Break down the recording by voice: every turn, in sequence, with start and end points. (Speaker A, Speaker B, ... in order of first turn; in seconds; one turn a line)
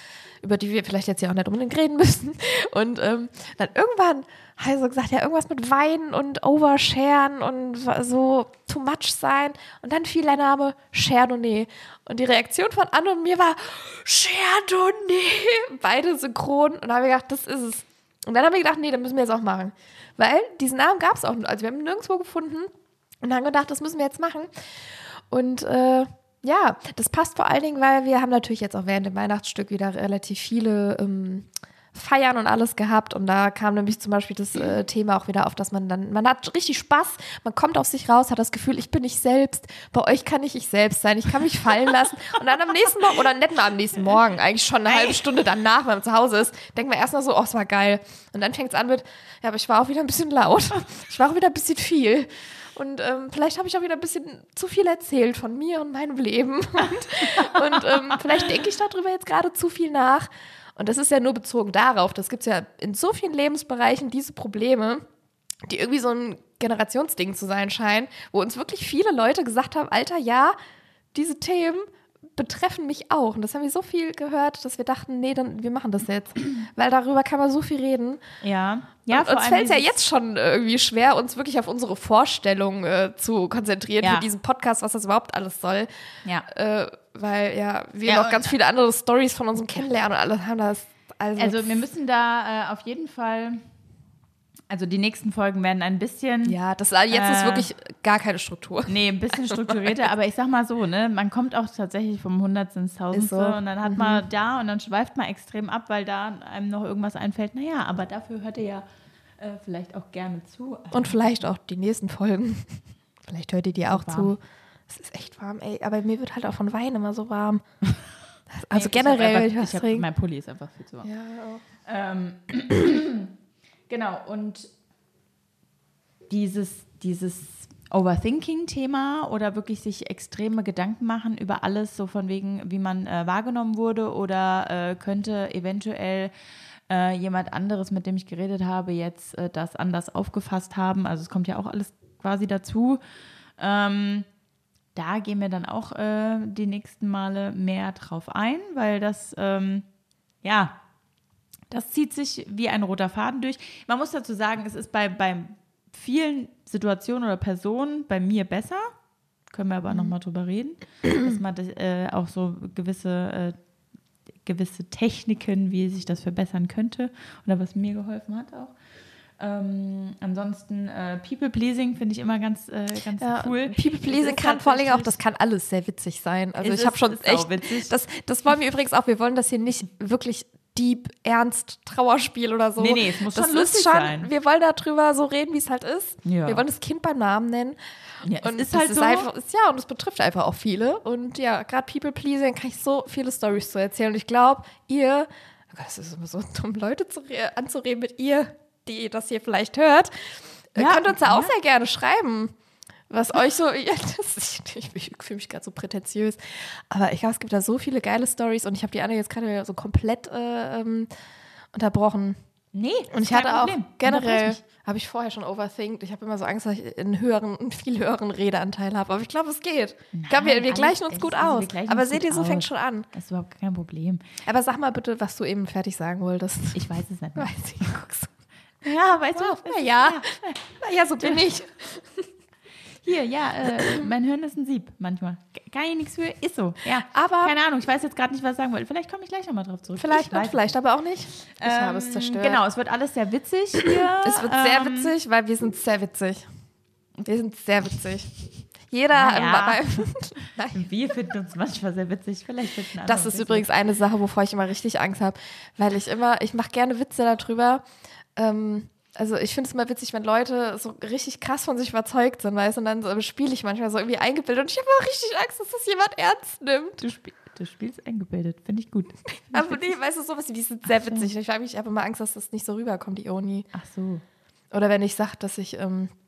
Speaker A: 0.4-22.7
Speaker A: 23.2-65.0
Speaker B: 44.9-45.2
Speaker B: 57.4-58.1
Speaker A: 65.7-70.5
Speaker A: 71.1-78.2
Speaker B: 78.4-79.9
Speaker A: 79.1-85.9
Speaker B: 84.0-84.3
Speaker A: 86.4-91.8
Speaker B: 88.1-88.5
Speaker B: 91.4-93.6
Speaker B: 94.7-96.6
Speaker A: 96.4-99.8
Speaker B: 97.1-97.7
Speaker B: 98.9-108.8
Speaker A: 103.1-104.2
Speaker B: 109.4-111.2
Speaker A: 110.9-117.6
Speaker B: 113.9-114.3
Speaker A: 118.5-120.0
Speaker B: 118.7-121.1
Speaker A: 121.0-121.6
Speaker B: 121.8-123.3
Speaker B: 123.9-124.7
Speaker B: 126.3-136.3
Speaker B: 136.9-143.0
Speaker B: 143.6-144.3
Speaker B: 144.9-149.8
Speaker B: 150.4-150.8
Speaker B: 151.7-158.9
Speaker B: 159.5-163.6
Speaker B: 164.4-168.8
Speaker B: 169.4-175.1
Speaker A: 173.2-187.8
Speaker B: 176.6-177.9
Speaker B: 182.8-184.3
Speaker B: 186.2-186.6
Speaker B: 188.2-189.3
Speaker A: 188.4-200.1
Speaker A: 200.7-202.5
Speaker B: 200.8-201.5
Speaker A: 203.1-211.1
Speaker A: 211.7-212.4
Speaker B: 212.7-214.6
Speaker A: 213.1-223.1
Speaker B: 220.1-224.2
Speaker A: 224.4-228.3
Speaker B: 226.7-227.8
Speaker B: 228.8-230.6
Speaker A: 229.3-232.3
Speaker B: 231.2-231.5
Speaker B: 233.0-240.6
Speaker A: 233.8-234.1
Speaker A: 237.1-237.6
Speaker A: 240.0-242.6
Speaker B: 241.6-245.1
Speaker A: 244.2-246.4
Speaker A: 247.2-248.3
Speaker A: 248.8-250.9
Speaker B: 249.1-250.0
Speaker B: 250.7-253.7
Speaker A: 253.1-257.8
Speaker A: 258.4-267.0
Speaker B: 267.0-269.9
Speaker A: 269.3-273.7
Speaker B: 271.0-271.3
Speaker B: 273.7-274.2
Speaker A: 274.7-276.1